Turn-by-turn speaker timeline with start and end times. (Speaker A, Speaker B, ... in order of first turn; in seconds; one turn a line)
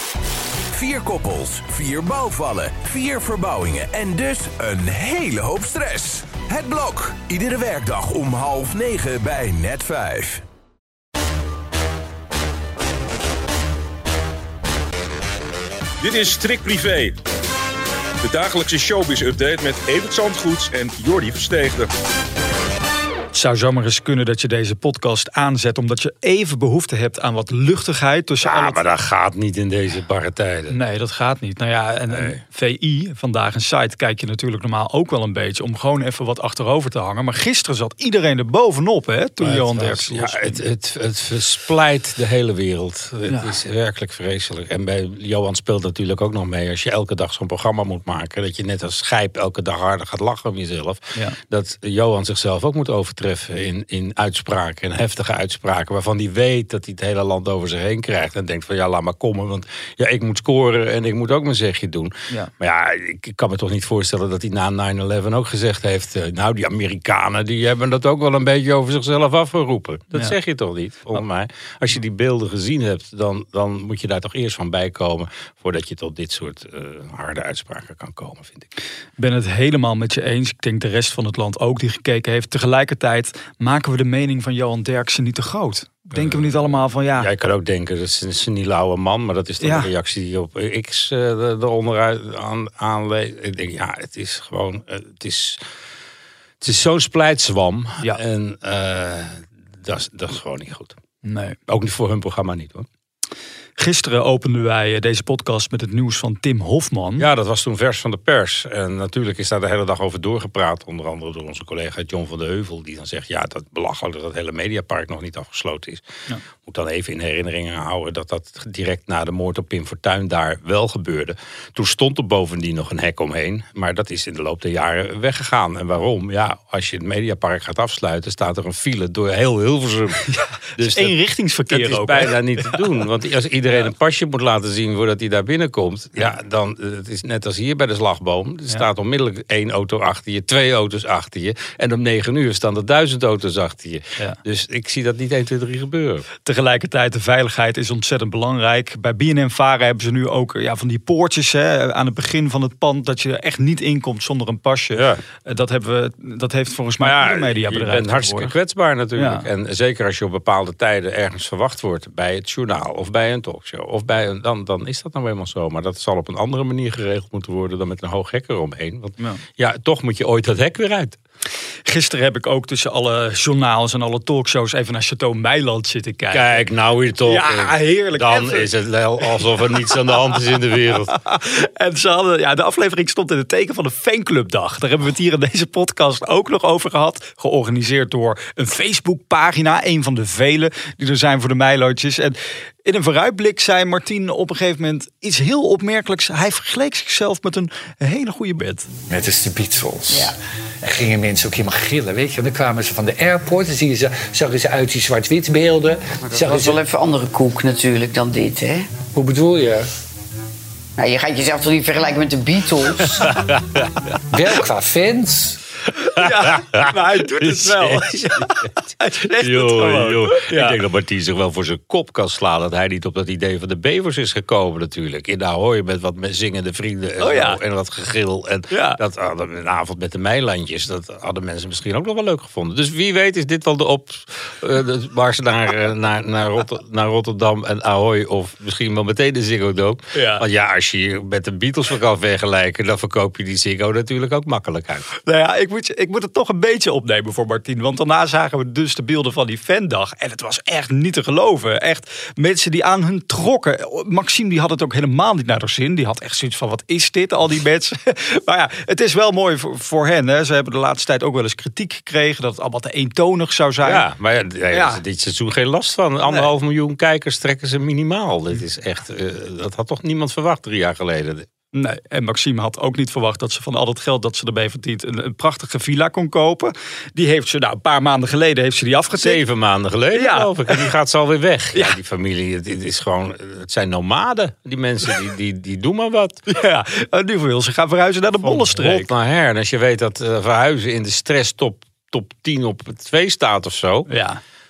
Speaker A: 0.7-10.4
Speaker B: 16.0-17.2
Speaker B: 18.2-21.9
Speaker C: 23.3-28.8
Speaker D: 28.4-30.8
Speaker C: 30.7-40.6
Speaker D: 32.1-32.4
Speaker D: 39.4-78.7
Speaker C: 43.3-43.5
Speaker C: 79.2-87.3
Speaker D: 86.2-95.6
Speaker C: 89.6-89.9
Speaker D: 96.6-101.0
Speaker C: 101.2-101.6
Speaker D: 101.7-102.9
Speaker C: 103.8-107.3
Speaker D: 107.2-116.0
Speaker D: 116.7-131.2
Speaker C: 130.3-132.8
Speaker D: 131.7-146.3
Speaker C: 146.4-158.5
Speaker D: 154.9-155.2
Speaker D: 157.0-171.2
Speaker C: 159.2-159.5
Speaker C: 171.8-176.7
Speaker D: 176.3-181.1
Speaker C: 177.2-180.1
Speaker C: 181.1-198.9
Speaker E: 199.1-206.8
Speaker F: 200.1-200.3
Speaker F: 206.2-209.0
Speaker E: 209.0-209.9
Speaker F: 211.0-213.3
Speaker D: 213.2-214.1
Speaker E: 214.3-215.6
Speaker C: 215.9-220.8
Speaker D: 216.2-218.7
Speaker D: 219.4-245.1
Speaker C: 227.2-227.6
Speaker C: 228.7-229.0
Speaker C: 240.1-240.4
Speaker C: 245.2-264.1
Speaker D: 263.8-271.5
Speaker C: 264.7-265.0
Speaker C: 271.7-279.4
Speaker D: 279.2-286.4
Speaker C: 280.1-280.9
Speaker C: 286.5-289.1
Speaker D: 288.4-294.1
Speaker C: 294.1-294.4